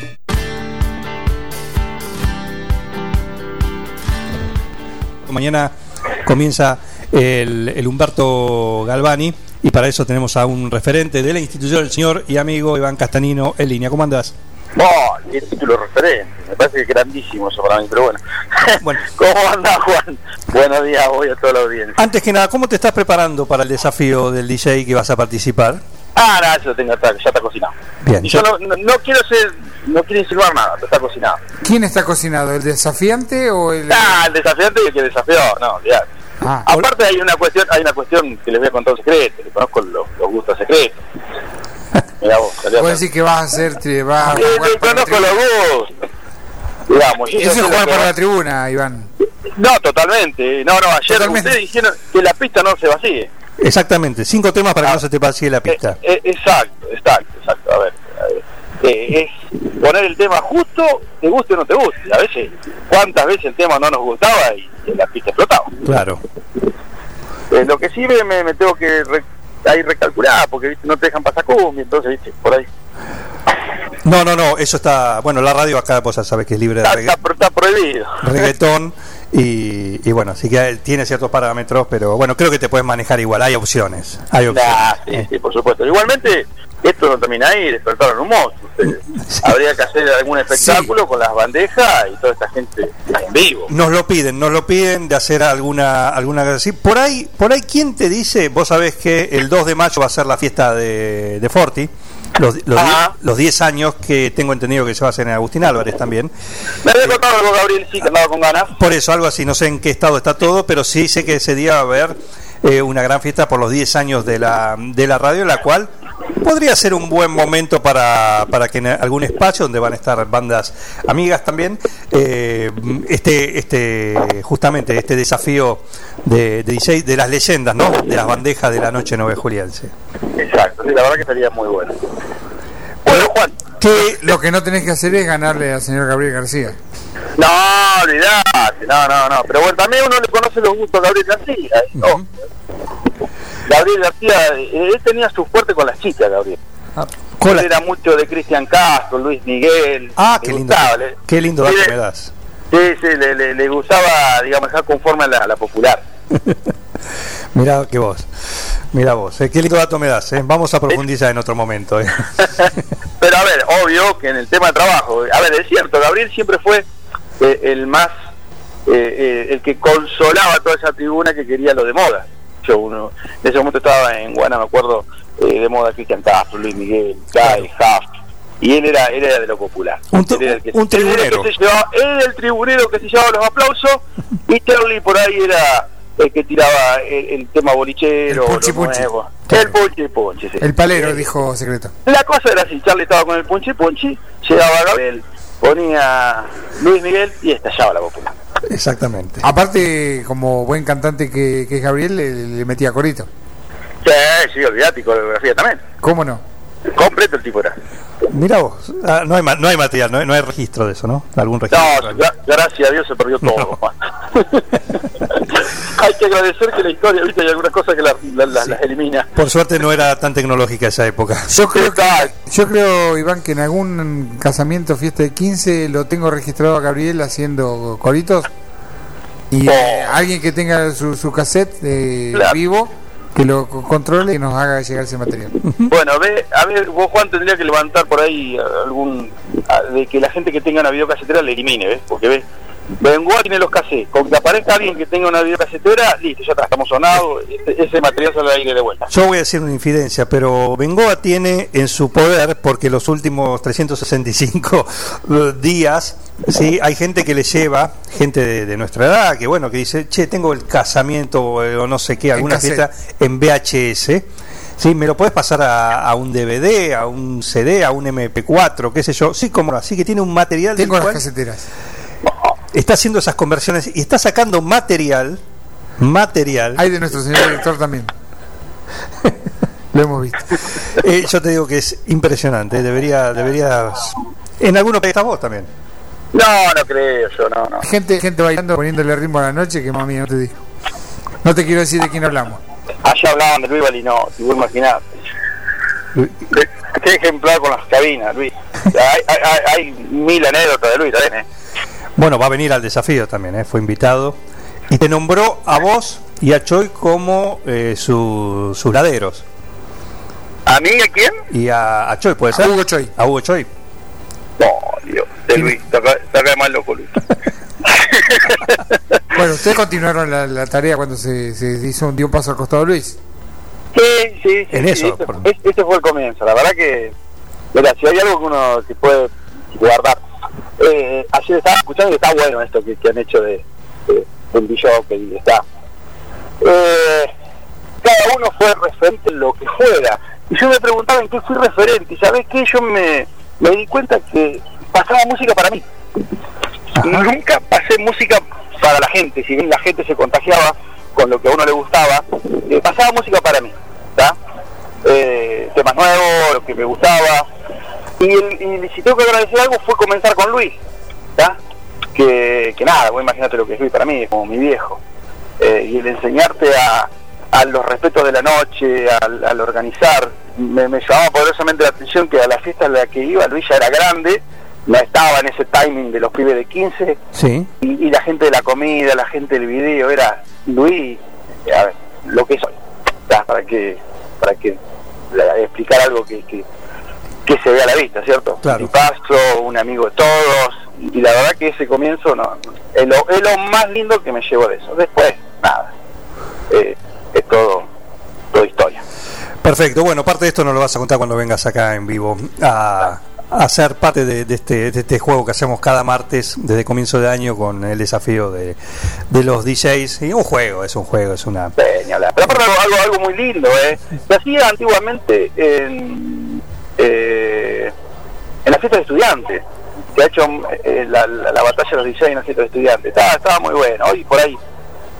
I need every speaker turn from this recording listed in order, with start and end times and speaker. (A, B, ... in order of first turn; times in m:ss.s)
0:05.3-0:05.7 A
0:06.2-0:14.3 A
0:14.7-0:22.0 B
0:18.8-0:19.1 A
0:22.0-0:25.8 A
0:26.1-0:31.4 B
0:28.0-0:28.4 A
0:31.6-0:34.3 C
0:33.9-0:36.1 B
0:36.4-0:36.7 C
0:36.6-0:41.0 B
0:42.2-0:43.0 B
0:42.7-0:45.4 C
0:44.2-0:45.9 B
0:46.9-0:48.1 B
0:47.3-0:49.1 C
0:49.4-0:53.3 B
0:51.1-0:51.6 C
0:53.6-0:56.0 A
0:55.7-1:05.7 B
1:05.8-1:06.2 A
1:07.5-1:12.6 B
1:14.0-1:17.2 A
1:16.8-1:18.5 B
1:18.2-1:25.3 A
1:24.5-1:33.7 B
1:29.2-1:29.6 A
1:33.7-1:46.3 A
1:42.7-1:43.1 B
1:46.8-1:48.7 B
1:48.7-1:55.9 A
1:56.4-2:09.9 A
2:10.4-2:12.0 B
2:13.0-2:13.7 B
2:13.1-2:14.2 A
2:14.0-2:16.8 C
2:17.4-2:22.2 B
2:23.6-2:26.6 B
2:27.4-2:27.7 A
2:27.4-2:31.9 B
2:30.2-2:32.3 A
2:32.7-2:36.0 B
2:37.5-2:38.3 A
2:38.9-2:42.6 A
2:42.4-2:46.8 B
2:47.4-2:48.1 B
2:48.8-2:58.0 B
2:58.6-3:11.3 B
3:00.1-3:01.5 A
3:08.3-3:09.1 C
3:10.6-3:11.9 C
3:12.0-3:18.3 B
3:18.7-3:19.4 A
3:19.4-3:23.3 C
3:24.0-3:25.8 B
3:26.0-3:26.4 C
3:26.9-3:27.7 B
3:28.3-3:32.2 A
3:31.7-3:39.3 B
3:33.4-3:33.7 A
3:39.4-3:41.6 A
3:41.5-3:48.5 C
3:41.7-3:42.3 B
3:49.5-3:55.6 C
3:49.6-3:50.2 B
3:52.3-3:52.6 B
3:55.9-4:02.4 B
4:03.0-4:09.1 B
4:09.1-4:24.3 A
4:22.3-4:22.9 C
4:24.8-4:31.2 A
4:30.7-4:31.7 C
4:32.7-4:35.4 A
4:36.0-4:36.9 A
4:36.7-4:38.1 C
4:39.9-4:40.6 C
4:40.9-4:45.7 A
4:46.3-4:47.8 B
4:47.8-4:50.6 C
4:51.4-4:52.6 C
4:53.0-4:55.0 B
4:56.5-5:01.4 B
5:02.2-5:04.4 A
5:04.9-5:09.4 A
5:10.7-5:11.3 B
5:11.5-5:13.7 A
5:12.5-5:13.1 C
5:14.6-5:17.2 B
5:17.8-5:19.0 B
5:19.3-5:23.2 C
5:23.9-5:27.1 B
5:24.7-5:25.5 A
5:27.7-5:30.2 B
5:30.8-5:35.6 B
5:36.6-5:37.3 B
5:38.0-5:45.8 B
5:47.0-5:54.3 B
5:47.0-5:47.2 A
5:55.0-5:57.4 B
5:58.2-6:00.8 B
6:02.1-6:05.0 B
6:05.6-6:17.2 B
6:17.3-6:17.7 A
6:17.8-6:22.7 B
6:23.3-6:24.8 B
6:25.3-6:26.6 B
6:27.4-6:35.9 B
6:28.6-6:29.0 A
6:36.7-6:37.8 B
6:38.5-6:39.0 B
6:39.6-6:48.8 A
6:49.3-6:51.7 A
6:51.8-6:57.9 B
6:58.6-6:59.6 B
7:00.1-7:04.6 B